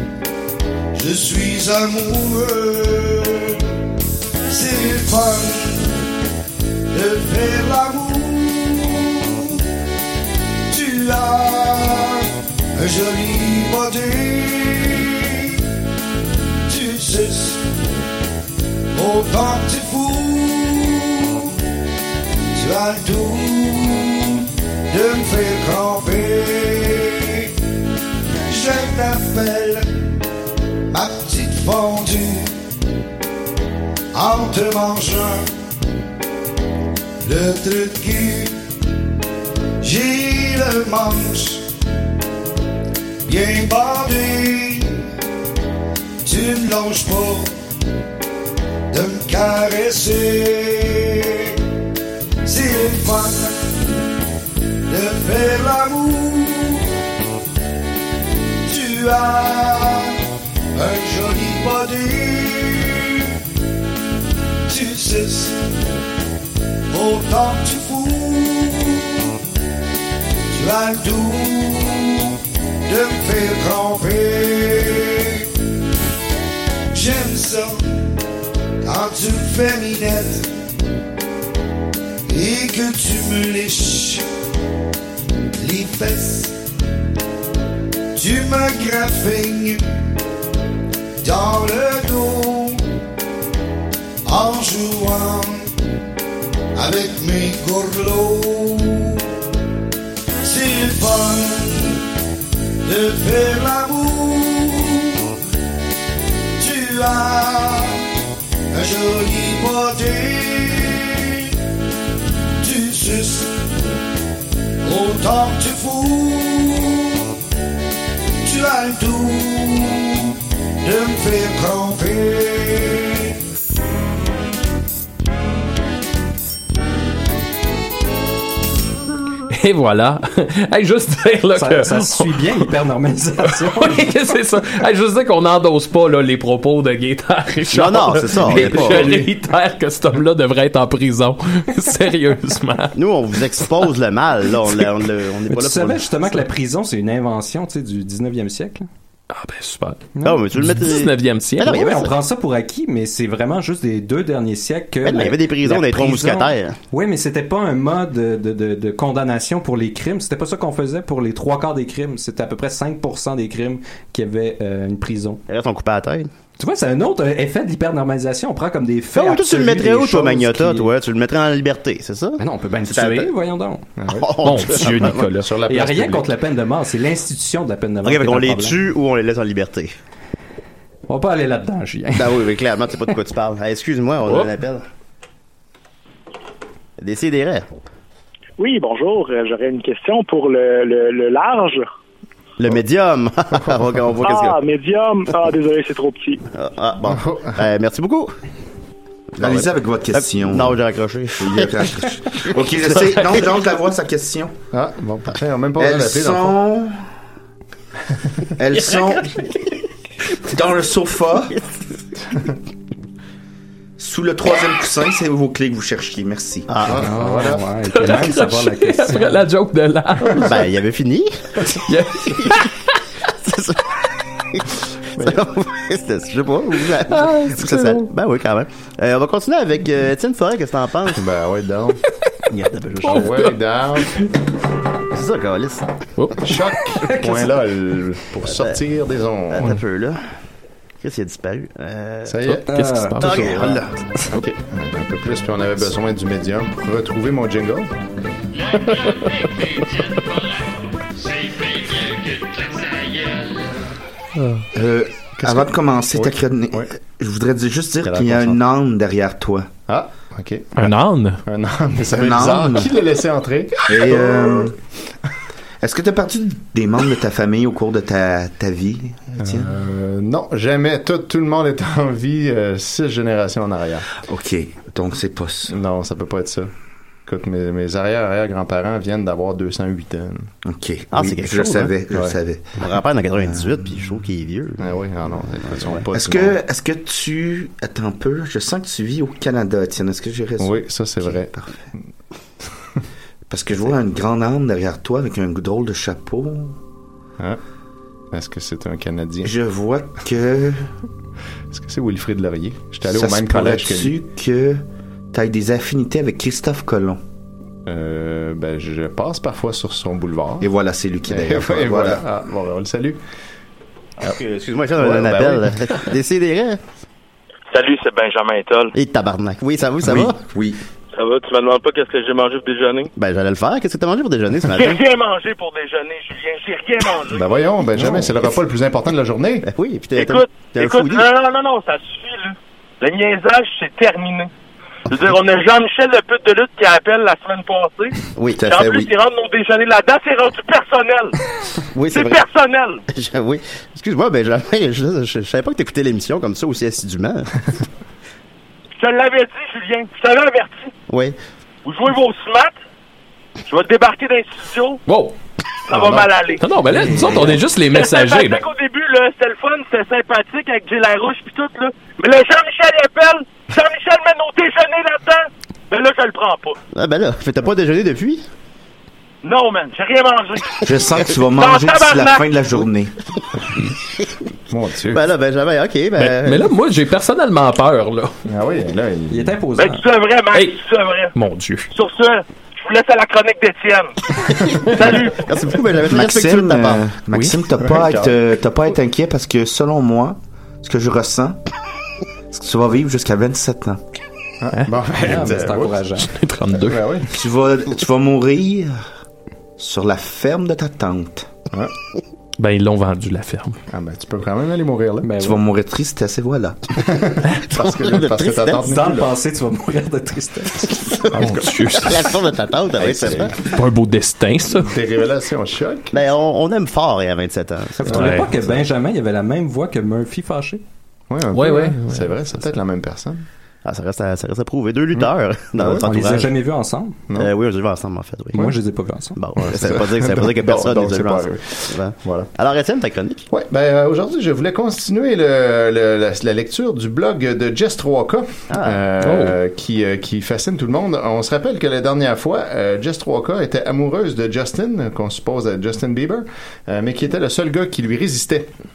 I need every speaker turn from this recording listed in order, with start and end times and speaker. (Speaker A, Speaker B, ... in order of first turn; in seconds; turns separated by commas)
Speaker A: 0.9-3.6, Speaker A: 4.5-6.0, Speaker A: 6.9-9.6, Speaker A: 10.7-15.6, Speaker A: 16.7-17.6, Speaker A: 18.9-21.5, Speaker A: 22.5-27.5, Speaker A: 28.5-29.9, Speaker A: 30.9-32.5, Speaker A: 34.1-35.5, Speaker A: 37.2-38.5, Speaker A: 39.8-41.6, Speaker A: 43.2-45.1, Speaker A: 46.2-47.5, Speaker A: 48.9-51.5, Speaker A: 52.4-53.6, Speaker A: 54.9-56.9, Speaker A: 58.6-60.2, Speaker A: 60.8-63.2, Speaker A: 64.7-65.6, Speaker A: 66.9-69.2, Speaker A: 70.5-75.4, Speaker A: 76.9-78.1, Speaker A: 78.8-80.5, Speaker A: 82.3-84.2, Speaker A: 85.6-86.5, Speaker A: 88.1-89.9, Speaker A: 91.2-92.8, Speaker A: 94.2-95.7, Speaker A: 96.8-99.2, Speaker A: 100.4-102.0, Speaker A: 102.8-105.3, Speaker A: 106.6-108.1, Speaker A: 108.7-111.5, Speaker A: 112.6-113.5, Speaker A: 114.8-117.3, Speaker A: 118.4-123.3, Speaker B: 129.5-132.4, Speaker C: 131.5-134.1, Speaker B: 133.5-142.9, Speaker D: 137.7-139.2, Speaker C: 138.5-139.0, Speaker D: 142.9-146.4, Speaker C: 145.5-148.8, Speaker B: 149.3-151.8, Speaker C: 150.2-150.4, Speaker D: 150.2-152.1, Speaker C: 151.6-165.4, Speaker D: 155.0-156.8, Speaker D: 165.5-166.3, Speaker C: 166.6-170.9, Speaker D: 169.1-173.3, Speaker C: 172.4-173.8, Speaker E: 174.0-174.3, Speaker D: 174.1-175.3, Speaker B: 174.4-175.5, Speaker E: 175.3-176.3, Speaker C: 175.7-178.8, Speaker D: 178.0-179.9, Speaker C: 181.1-182.5, Speaker D: 182.1-184.8, Speaker D: 187.0-187.7, Speaker F: 188.6-191.9, Speaker D: 192.6-194.6, Speaker F: 194.2-196.4, Speaker D: 196.5-198.3, Speaker E: 197.1-197.6, Speaker D: 199.4-201.9, Speaker G: 199.4-200.8, Speaker G: 201.4-204.5, Speaker E: 204.7-206.6, Speaker G: 205.8-207.0, Speaker G: 208.6-209.3, Speaker G: 210.5-211.6, Speaker G: 214.0-216.7, Speaker D: 216.7-217.1, Speaker E: 216.8-217.7, Speaker C: 216.9-219.4, Speaker B: 217.9-220.5, Speaker D: 220.4-221.6, Speaker B: 221.8-222.7, Speaker D: 222.4-222.6, Speaker D: 223.4-231.2, Speaker E: 225.2-225.4, Speaker B: 227.1-228.0, Speaker E: 231.1-232.0, Speaker D: 232.5-233.4, Speaker E: 233.0-234.1, Speaker B: 233.0-233.5, Speaker D: 235.1-235.9, Speaker E: 236.4-239.8, Speaker C: 237.1-237.5, Speaker D: 238.5-238.8, Speaker D: 239.5-240.2, Speaker D: 241.0-242.6, Speaker E: 242.3-242.6, Speaker C: 242.7-243.8, Speaker B: 242.7-243.5, Speaker D: 243.2-244.3, Speaker E: 244.3-247.9, Speaker E: 248.7-249.5, Speaker G: 254.7-259.7, Speaker E: 255.4-256.9, Speaker E: 259.9-264.7, Speaker B: 260.8-261.4, Speaker G: 262.1-262.9, Speaker G: 263.9-264.7, Speaker G: 265.8-269.7, Speaker E: 269.4-274.1, Speaker G: 274.2-275.7, Speaker E: 275.7-276.7, Speaker E: 277.2-280.5, Speaker G: 280.6-282.9, Speaker D: 281.1-282.0, Speaker D: 282.8-285.0, Speaker E: 284.8-286.6, Speaker D: 285.6-286.0, Speaker G: 286.1-291.8, Speaker E: 290.6-291.5, Speaker G: 293.5-296.8, Speaker E: 298.3-299.5, Speaker G: 299.4-300.9, Speaker E: 301.7-304.2, Speaker G: 303.1-307.2, Speaker E: 307.9-310.7, Speaker G: 310.6-312.2, Speaker E: 311.3-313.2, Speaker D: 314.2-316.8, Speaker G: 315.1-315.6, Speaker H: 317.7-318.9, Speaker D: 318.9-320.4, Speaker G: 320.0-320.8, Speaker H: 321.1-323.1, Speaker D: 323.2-325.0, Speaker H: 324.7-327.5, Speaker E: 327.3-329.6, Speaker D: 328.0-328.3, Speaker D: 329.6-331.3, Speaker H: 330.1-334.5, Speaker H: 335.1-341.3, Speaker D: 338.4-338.7, Speaker G: 338.6-339.1, Speaker D: 341.9-342.4, Speaker H: 342.1-343.0, Speaker D: 343.1-347.5, Speaker H: 349.0-350.9, Speaker D: 351.1-351.4, Speaker H: 351.8-352.7, Speaker H: 353.7-355.0, Speaker B: 355.1-355.3, Speaker H: 355.9-356.7, Speaker E: 355.9-356.2, Speaker B: 356.6-358.7, Speaker D: 357.0-357.6, Speaker H: 357.9-366.8, Speaker D: 366.9-368.4, Speaker H: 369.4-370.9, Speaker G: 370.8-373.1, Speaker H: 371.5-372.5, Speaker E: 374.7-375.2, Speaker D: 375.1-376.7, Speaker B: 376.2-378.3, Speaker E: 378.4-379.5, Speaker C: 379.3-380.1, Speaker H: 379.8-381.3, Speaker B: 380.5-380.8, Speaker B: 381.3-381.9, Speaker H: 381.9-385.5, Speaker E: 384.7-385.0, Speaker D: 384.9-387.0, Speaker G: 386.0-391.6, Speaker E: 387.8-388.3, Speaker G: 392.5-394.0, Speaker E: 394.6-396.0, Speaker C: 395.2-396.3, Speaker B: 396.2-397.0, Speaker E: 396.8-397.3, Speaker G: 397.3-399.0, Speaker G: 399.8-401.5, Speaker B: 402.6-403.8, Speaker E: 403.9-405.3, Speaker C: 405.2-405.6, Speaker G: 405.4-406.8, Speaker E: 407.0-409.3, Speaker D: 407.7-408.9, Speaker C: 408.8-411.0, Speaker E: 411.3-411.9, Speaker B: 411.3-412.3, Speaker D: 412.0-413.6, Speaker E: 413.0-413.5, Speaker B: 413.6-414.9, Speaker E: 414.7-416.1, Speaker D: 416.1-418.8, Speaker C: 418.0-420.8, Speaker E: 418.1-418.4, Speaker B: 418.1-418.5, Speaker E: 421.3-423.4, Speaker B: 421.5-422.3, Speaker D: 423.8-426.5, Speaker E: 425.1-426.1, Speaker C: 425.9-427.2, Speaker D: 427.3-428.7, Speaker C: 428.5-429.4, Speaker D: 429.4-433.5, Speaker E: 429.6-432.5, Speaker E: 433.5-448.7, Speaker D: 438.7-439.0, Speaker B: 439.2-439.6